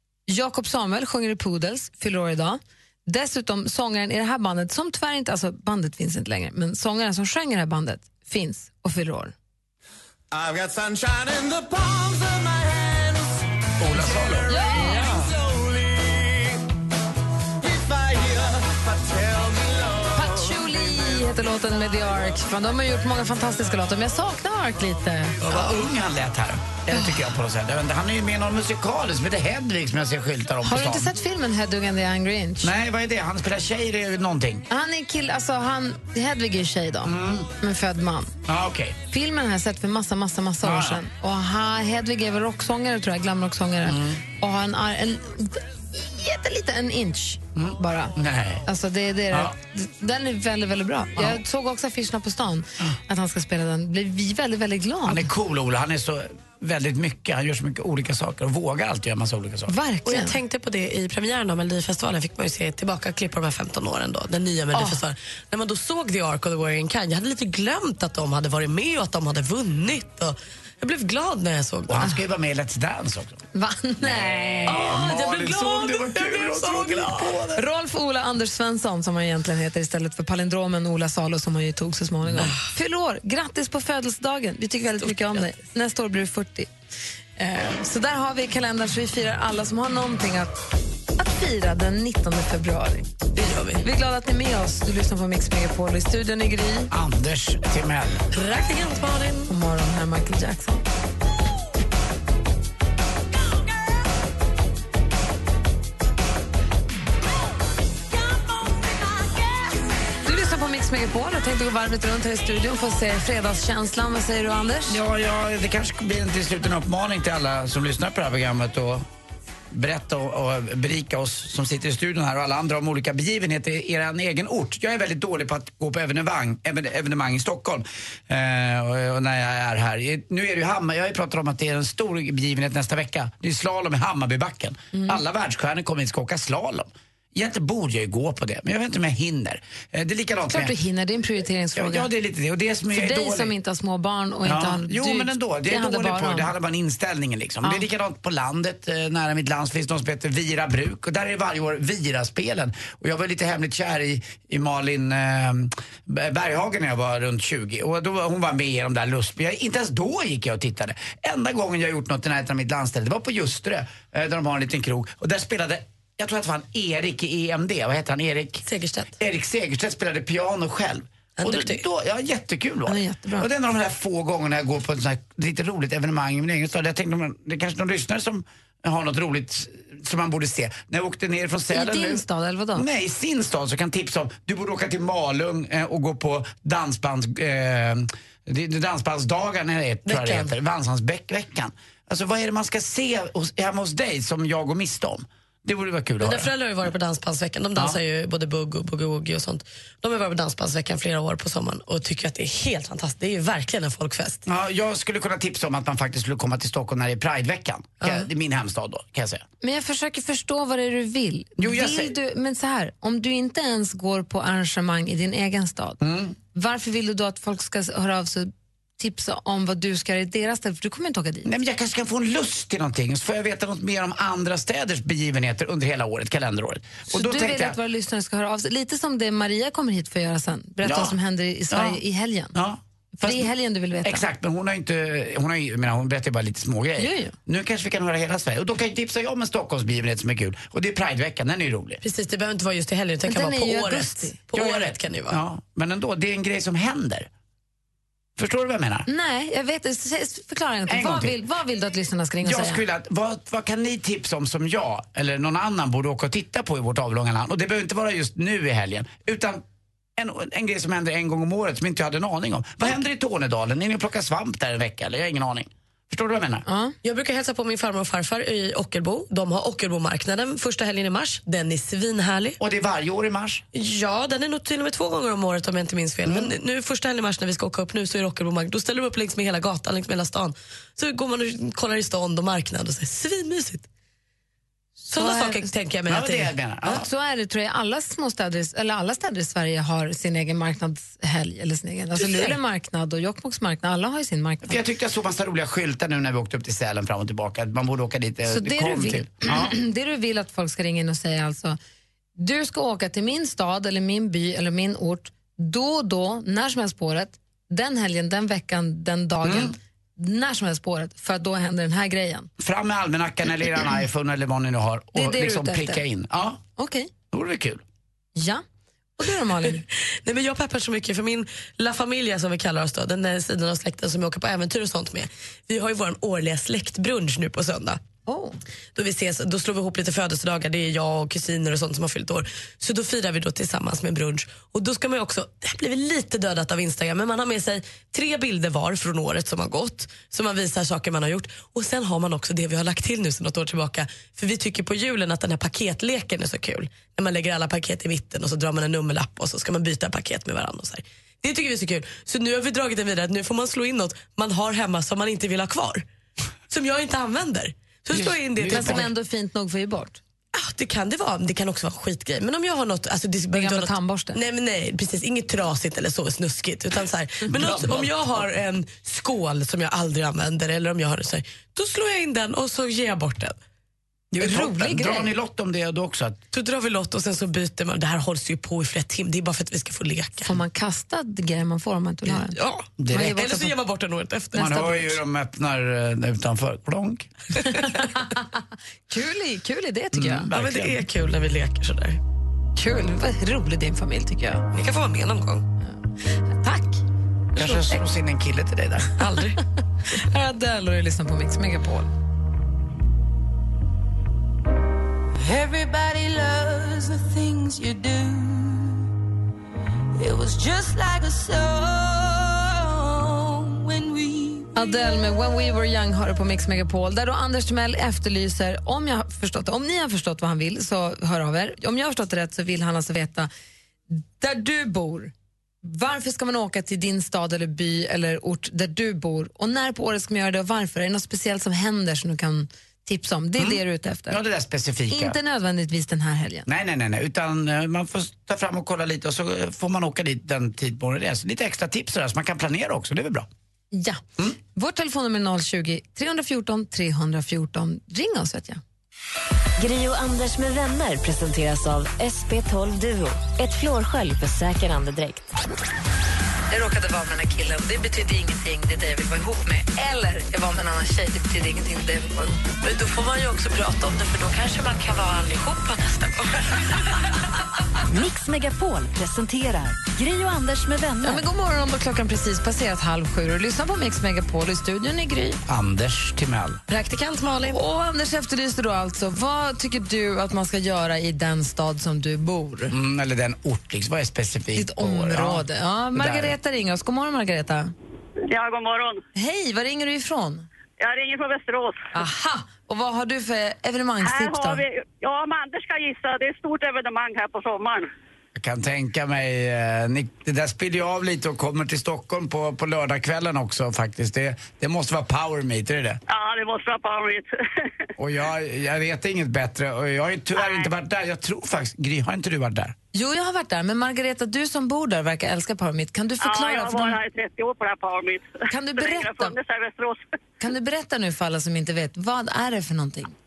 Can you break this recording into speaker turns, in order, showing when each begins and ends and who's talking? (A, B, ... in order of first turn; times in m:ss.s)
0:00.3-0:09.3 A
0:10.3-0:13.1 B
0:13.8-0:15.3 C
0:14.5-0:15.3 A
0:17.8-0:20.0 B
0:20.1-0:25.8 A
0:25.4-0:31.1 C
0:26.9-0:27.3 A
0:30.6-0:32.7 A
0:32.6-0:34.7 C
0:34.7-0:38.3 A
0:37.0-0:37.5 C
0:38.5-0:39.0 C
0:39.1-0:48.1 A
0:40.6-0:41.0 C
0:43.9-0:44.2 C
0:47.5-0:48.6 C
0:48.6-0:55.3 A
0:55.0-0:59.7 C
0:59.7-1:00.4 A
1:00.0-1:12.1 D
1:04.7-1:05.0 A
1:11.9-1:13.4 C
1:13.5-1:14.7 A
1:14.0-1:17.6 C
1:14.7-1:17.4 D
1:17.5-1:26.7 A
1:25.0-1:25.5 D
1:27.4-1:30.6 A
1:31.2-1:33.1 A
1:33.3-1:33.8 D
1:33.8-1:36.9 A
1:36.9-1:38.3 C
1:38.3-1:39.5 D
1:39.5-1:40.8 A
1:50.2-1:55.0 A
1:54.9-1:59.0 C
1:59.7-2:20.7 C
2:14.9-2:15.2 A
2:20.5-2:22.1 A
2:21.8-2:23.5 C
2:22.9-2:26.5 A
2:24.4-2:48.6 C
2:48.6-2:49.1 D
2:49.2-3:02.2 C
2:51.4-2:51.8 D
2:52.9-2:53.5 A
3:01.7-3:02.8 A
3:02.7-3:16.5 C
3:10.0-3:10.5 D
3:16.2-3:24.4 D
3:24.4-3:29.4 C
3:29.6-3:36.0 A
3:31.6-3:32.1 C
3:36.0-3:36.4 C
3:36.5-3:41.5 A
3:41.4-3:47.8 C
3:47.1-3:52.5 A
3:50.8-3:51.2 C
3:51.7-3:52.0 C
3:52.5-3:53.5 C
3:53.1-3:54.2 A
3:54.0-4:02.0 C
3:57.0-3:57.3 A
4:02.0-4:05.4 D
4:03.2-4:04.4 A
4:04.5-4:07.3 C
4:08.4-4:09.1 C
4:09.1-4:12.8 A
4:10.9-4:11.4 C
4:12.4-4:19.6 C
4:20.2-4:26.6 C
4:26.6-4:26.9 A
4:27.0-4:32.6 D
4:32.6-4:33.6 C
4:33.7-4:43.8 D
4:36.2-4:36.5 C
4:45.1-4:45.7 A
4:45.1-4:47.0 D
4:46.1-4:47.0 C
4:46.9-4:54.8 A
4:52.2-4:52.6 D
4:54.6-4:59.7 C
4:58.4-5:01.8 A
5:02.4-5:12.5 A
5:09.4-5:09.7 C
5:12.6-5:16.6 C
5:15.1-5:16.0 A
5:16.8-5:17.1 A
5:17.3-5:17.8 C
5:18.4-5:18.6 A
5:19.2-5:19.8 A
5:19.7-5:28.0 D
5:28.2-5:28.6 A
5:28.9-5:56.0 D
5:56.7-5:59.1 D
5:58.1-5:59.1 C
5:58.6-6:00.2 A
6:00.5-6:13.6 D
6:03.5-6:04.4 A
6:07.5-6:08.5 C
6:14.3-6:16.4 C
6:14.4-6:15.3 A
6:16.5-6:20.5 D
6:20.4-6:23.7 A
6:22.3-6:25.1 D
6:23.0-6:23.4 C
6:24.5-6:27.3 C
6:24.6-6:24.9 A
6:27.6-6:30.5 A
6:30.1-6:31.0 C
6:30.5-6:32.2 D
6:32.8-6:34.7 A
6:34.7-6:35.6 D
6:36.6-6:37.0 A
6:37.6-6:39.2 C
6:39.2-6:39.6 D
6:40.1-6:42.1 A
6:45.4-6:49.0 E
6:50.2-6:54.7 E
6:54.7-7:03.5 A
7:04.1-7:05.3 A
7:05.8-7:14.4 A
7:13.6-7:15.4 C
7:15.1-7:16.7 A
7:16.7-7:23.5 C
7:23.9-7:24.2 A
7:24.7-7:28.8 A
7:29.8-7:35.5 F
7:36.7-7:42.6 A
7:42.8-7:47.0 D
7:48.1-7:51.4 F
7:51.2-7:55.6 A
7:55.7-7:56.8 C
7:56.9-7:57.8 D
7:57.6-8:02.9 A
8:02.9-8:06.5 C
8:04.7-8:07.9 A
8:08.5-8:09.2 G
8:09.3-8:10.7 A
8:11.0-8:12.0 G
8:12.1-8:14.8 A
8:14.2-8:18.1 G
8:18.5-8:26.2 C
8:26.3-8:27.9 G
8:28.2-8:33.0 C
8:30.6-8:30.9 G
8:33.1-8:37.2 A
8:36.4-8:40.2 G
8:38.7-8:39.6 A
8:40.6-8:43.3 A